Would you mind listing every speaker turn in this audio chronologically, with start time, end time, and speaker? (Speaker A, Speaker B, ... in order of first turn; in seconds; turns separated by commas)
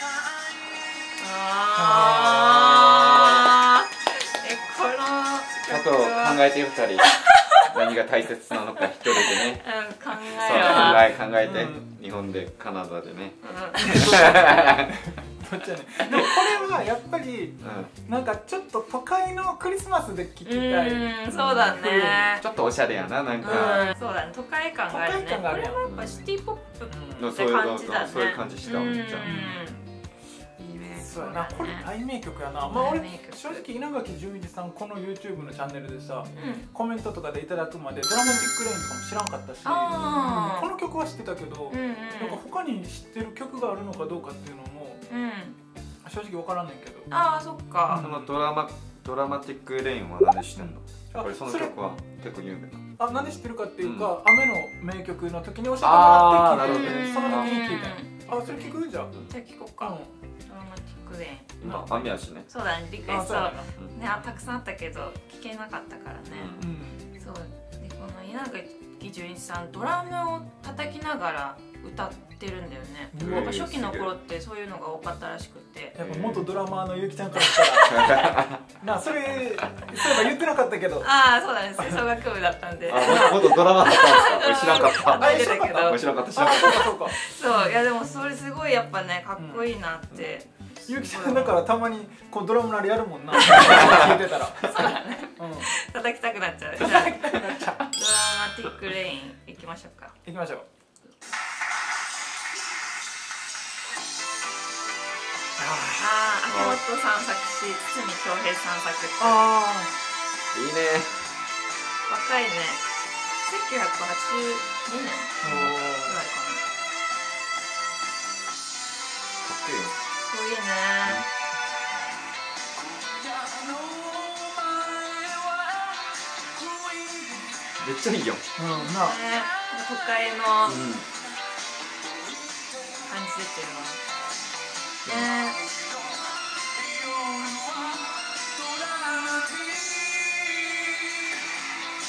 Speaker A: 1.2-6.4, Speaker B: 1.8-3.0, Speaker C: 5.7-9.7, Speaker A: 7.0-7.6, Speaker A: 9.1-11.1, Speaker C: 10.2-14.8, Speaker B: 10.8-11.8, Speaker A: 13.4-14.3, Speaker B: 13.8-22.4, Speaker C: 17.6-17.9, Speaker A: 20.4-22.4, Speaker C: 21.3-21.7, Speaker C: 22.4-23.9, Speaker A: 23.4-29.8, Speaker B: 23.5-23.9, Speaker B: 24.9-25.8, Speaker C: 25.8-26.3, Speaker B: 26.9-27.3, Speaker C: 27.2-29.3, Speaker B: 29.2-29.8, Speaker A: 30.6-31.9, Speaker B: 31.0-45.0, Speaker A: 32.6-33.6, Speaker A: 36.3-36.7, Speaker A: 38.2-38.5, Speaker A: 39.6-40.7, Speaker A: 41.7-42.4, Speaker A: 45.1-45.6, Speaker B: 46.0-47.1, Speaker A: 47.1-48.1, Speaker B: 47.9-48.3, Speaker C: 48.0-54.2, Speaker B: 50.6-51.7, Speaker B: 53.0-59.1, Speaker C: 55.8-57.6, Speaker A: 56.6-61.7, Speaker B: 59.8-60.1, Speaker C: 61.6-62.5, Speaker B: 61.6-62.1, Speaker A: 62.5-66.6, Speaker B: 63.0-63.7, Speaker C: 66.3-66.7, Speaker B: 66.6-67.1, Speaker A: 67.2-76.0, Speaker B: 73.1-73.6, Speaker C: 73.2-74.1, Speaker B: 76.0-78.0, Speaker C: 76.0-76.5, Speaker A: 77.3-78.4, Speaker C: 77.9-78.8, Speaker B: 78.8-81.1, Speaker A: 81.0-91.6, Speaker C: 82.9-87.0, Speaker B: 83.0-83.5, Speaker B: 85.1-87.7, Speaker B: 89.4-89.7, Speaker B: 90.9-94.7, Speaker A: 93.3-100.2, Speaker B: 95.4-95.7, Speaker B: 96.8-97.9, Speaker B: 100.2-100.7, Speaker B: 105.6-106.1, Speaker A: 106.0-109.4, Speaker C: 106.5-106.8, Speaker B: 109.2-110.0, Speaker C: 110.5-111.3, Speaker A: 112.1-112.8, Speaker A: 113.4-116.6, Speaker B: 115.4-116.2, Speaker C: 115.4-115.8, Speaker C: 119.4-120.0, Speaker A: 120.3-121.2, Speaker C: 127.8-128.4, Speaker B: 128.6-129.2, Speaker A: 128.7-130.8, Speaker C: 130.7-131.1, Speaker A: 133.0-134.0, Speaker C: 135.1-135.3, Speaker A: 135.1-135.7